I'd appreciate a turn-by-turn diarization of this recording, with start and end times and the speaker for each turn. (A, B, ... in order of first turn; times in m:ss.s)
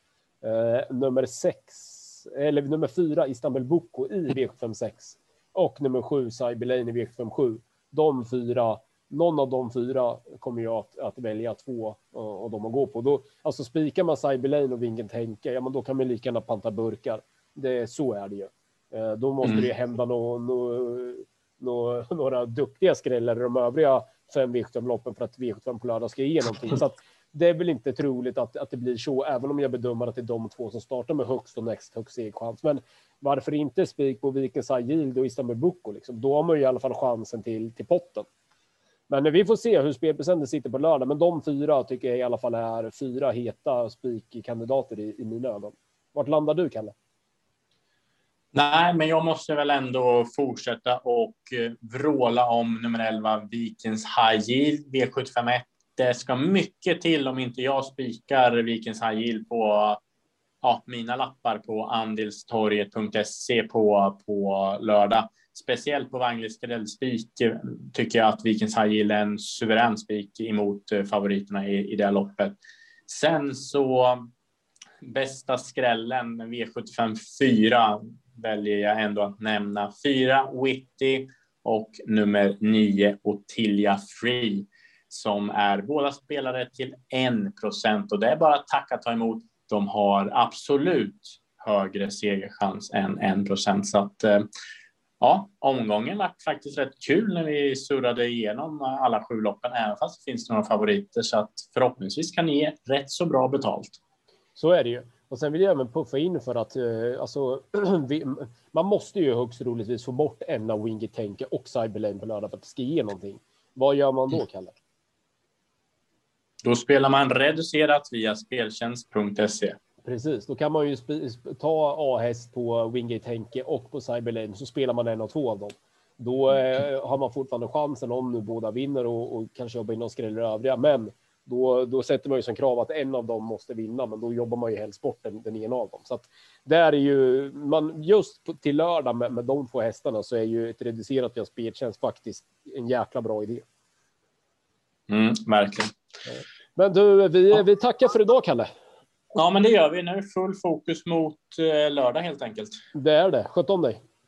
0:00.4-0:38.3 A
0:19.4-0:19.7 B
0:39.1-0:46.9 A
0:48.5-1:00.0 B
1:00.6-1:12.6 B
1:13.1-1:14.3 B
1:15.0-1:34.5 B
1:35.2-1:44.0 B
1:44.6-1:54.7 A
1:56.6-1:59.8 B
2:00.0-2:23.6 A
2:25.1-2:25.9 B
2:26.3-2:28.7 A
2:29.3-2:32.8 B
2:32.9-2:34.0 A